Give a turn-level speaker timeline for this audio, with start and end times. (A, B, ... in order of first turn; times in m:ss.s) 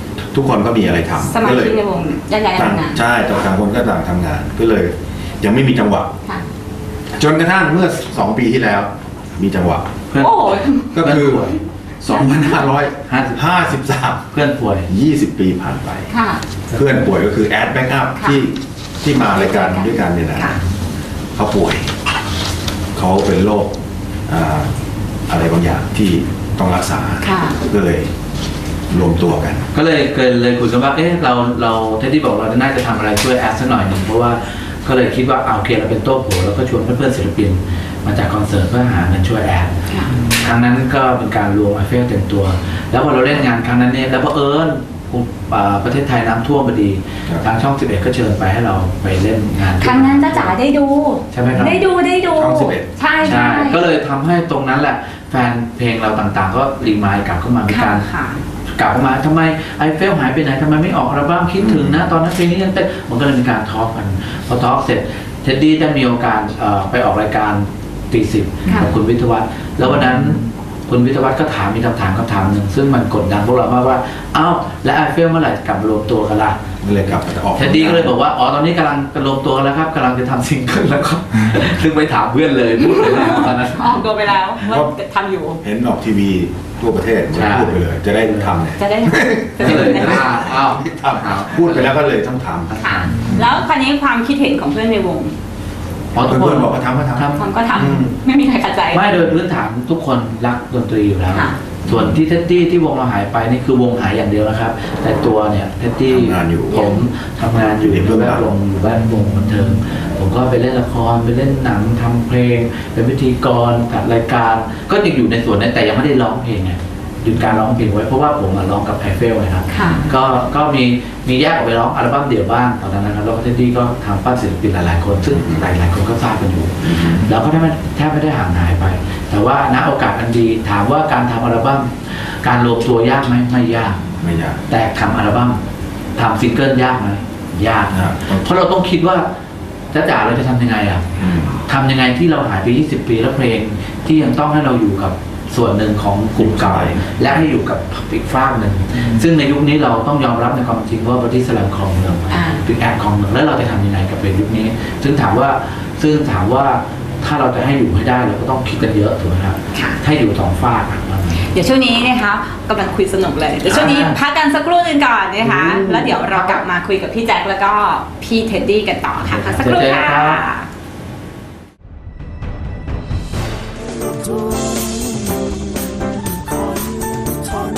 0:00.3-0:01.8 A
0:01.3-0:03.0 B
0:02.5-0:06.1 A
0:07.2-0:09.9 A
0:10.1-0:11.6 C
0:10.2-0:10.9 B
0:10.9-0:11.4 A
0:12.0-0:14.2 A
0:12.1-0:12.5 B
0:13.0-0:13.4 C
0:14.3-0:14.9 C
0:14.9-0:16.1 A
0:16.1-0:16.4 B
0:16.7-0:17.1 C
0:16.7-0:20.6 A
0:18.2-0:18.4 B
0:19.2-0:20.6 B
0:21.4-0:21.9 A
0:23.0-0:23.7 A
0:24.3-0:24.7 A
0:25.3-0:28.1 A
0:27.2-0:27.6 B
0:28.9-0:29.7 A
0:29.7-0:39.8 C
0:39.9-0:40.2 B
0:40.3-0:50.5 C
0:49.8-0:53.8 B
0:51.3-0:51.8 C
0:52.3-0:52.9 A
0:53.2-0:58.0 C
0:57.7-0:58.4 B
0:58.7-1:16.6 C
1:01.6-1:02.0 A
1:09.8-1:10.3 A
1:16.8-1:18.1 A
1:17.6-1:23.9 C
1:22.8-1:25.6 B
1:24.6-1:25.0 A
1:25.6-1:33.5 A
1:27.3-1:28.5 C
1:28.8-1:30.4 B
1:29.6-1:31.9 C
1:32.7-1:33.3 C
1:32.8-1:35.4 B
1:36.1-1:37.9 C
1:36.2-1:38.2 A
1:37.4-1:39.3 B
1:38.9-2:14.0 C
1:41.3-1:41.6 B
1:41.8-1:42.2 A
1:46.1-1:47.0 A
1:47.8-1:48.5 A
1:59.7-2:00.1 B
2:05.3-2:05.7 A
2:06.8-2:07.3 A
2:14.2-2:14.6 A
2:14.7-2:15.6 C
2:16.2-2:19.3 C
2:17.9-2:18.5 A
2:19.9-2:21.1 C
2:21.2-2:21.6 A
2:21.7-2:41.4 C
2:26.4-2:27.4 A
2:32.3-2:32.6 B
2:39.7-2:40.0 B
2:41.4-2:50.7 B
2:43.7-2:44.2 C
2:45.4-2:46.6 C
2:49.2-2:50.4 C